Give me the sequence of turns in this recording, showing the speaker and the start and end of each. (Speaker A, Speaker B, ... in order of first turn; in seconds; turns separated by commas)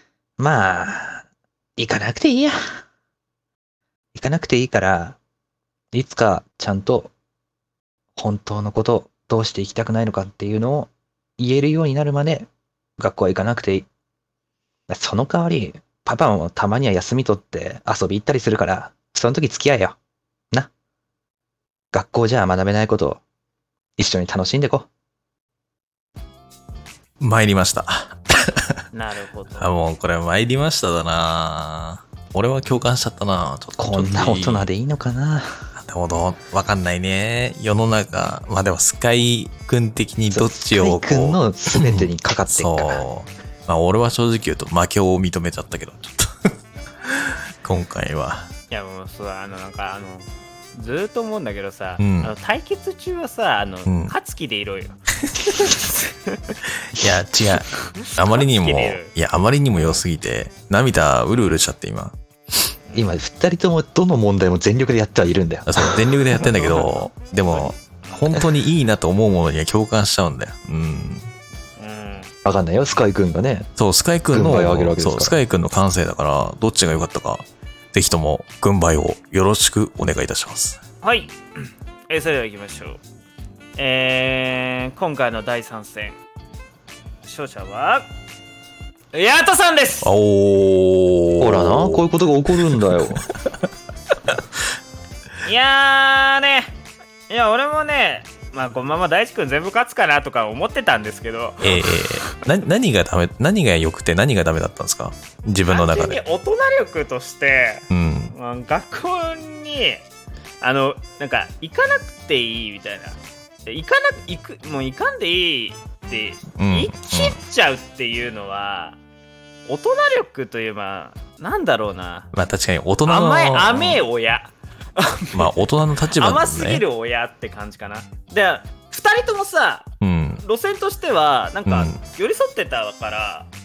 Speaker A: 0.4-1.2, Speaker A: 1.8-2.6, Speaker A: 4.1-5.2, Speaker A: 5.9-7.1, Speaker A: 8.2-13.9, Speaker A: 14.9-20.0, Speaker A: 21.9-23.2, Speaker A: 24.0-24.9, Speaker B: 27.2-28.8, Speaker C: 28.9-29.7, Speaker B: 29.6-34.7, Speaker A: 33.8-35.6, Speaker B: 35.8-48.5, Speaker A: 40.3-43.0, Speaker C: 48.7-55.0, Speaker B: 52.0-52.3, Speaker B: 53.9-54.1, Speaker C: 55.5-56.6, Speaker B: 56.9-62.2, Speaker C: 58.0-59.1, Speaker C: 59.8-60.0, Speaker A: 62.9-66.1, Speaker B: 65.7-71.3, Speaker C: 66.3-68.3, Speaker C: 71.8-72.3, Speaker A: 72.4-73.7, Speaker B: 73.8-80.8, Speaker A: 74.3-75.3, Speaker C: 81.0-83.0, Speaker C: 83.8-86.2, Speaker C: 87.2-88.1, Speaker C: 89.1-90.1, Speaker B: 90.0-92.0, Speaker A: 91.4-93.3, Speaker C: 95.4-96.7, Speaker C: 97.3-102.1, Speaker B: 101.6-106.2, Speaker C: 105.7-110.0, Speaker B: 107.9-108.3, Speaker C: 110.6-119.0, Speaker B: 116.6-117.3, Speaker C: 119.7-122.3, Speaker B: 122.3-124.0, Speaker C: 123.0-125.6, Speaker B: 125.3-126.8, Speaker C: 126.2-129.9, Speaker B: 130.0-130.4, Speaker C: 130.4-133.5, Speaker B: 131.7-132.0